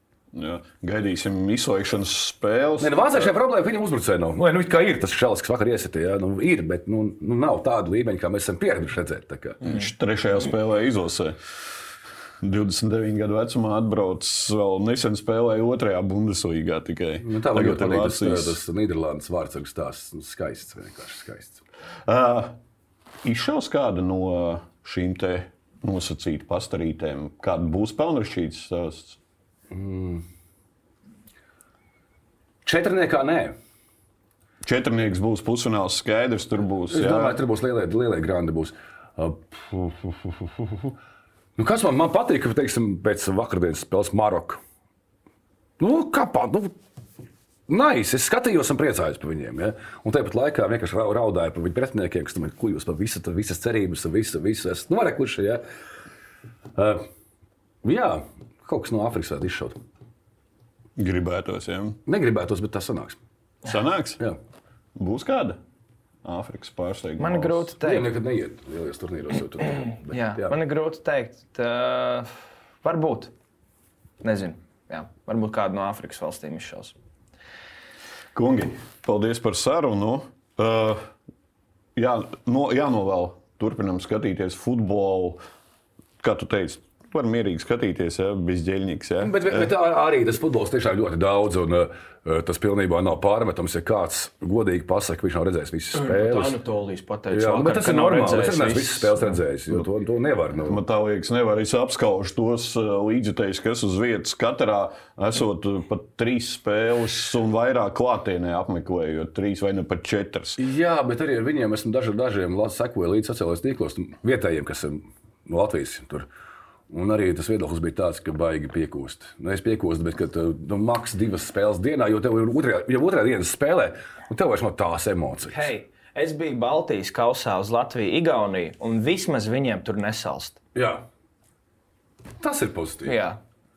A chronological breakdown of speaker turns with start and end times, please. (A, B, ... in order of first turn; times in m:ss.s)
0:00.3-0:03.2 A
0:02.8-0:09.6 B
0:09.6-0:11.4 A
0:12.4-0:18.6 A
0:17.2-0:21.6 B
0:22.0-0:22.6 A
0:23.2-0:29.2 A
0:29.7-0:30.2 B
0:32.6-0:33.5 B
0:34.6-0:37.4 A
0:36.9-0:40.9 B
0:41.6-0:44.6 B
0:45.8-0:46.7 B
0:47.7-0:55.6 B
0:56.8-0:57.1 B
0:57.8-0:59.8 B
1:01.0-1:02.0 A
1:02.0-1:03.2 B
1:03.6-1:04.2 A
1:05.0-1:05.6 A
1:06.2-1:07.7 A
1:07.2-1:08.1 C
1:07.8-1:10.5 B
1:10.1-1:12.3 C
1:12.8-1:13.3 C
1:14.2-1:16.9 C
1:18.3-1:21.1 A
1:21.9-1:25.4 A
1:26.2-1:29.7 A
1:29.2-1:36.6 B
1:35.9-1:39.1 C
1:37.3-1:40.8 B
1:40.6-1:50.6 A
1:50.6-1:56.3 B
1:56.9-2:05.7 B
2:05.5-2:10.6 C
2:10.7-2:11.0 B
2:12.4-2:13.2 B
2:13.0-2:13.4 C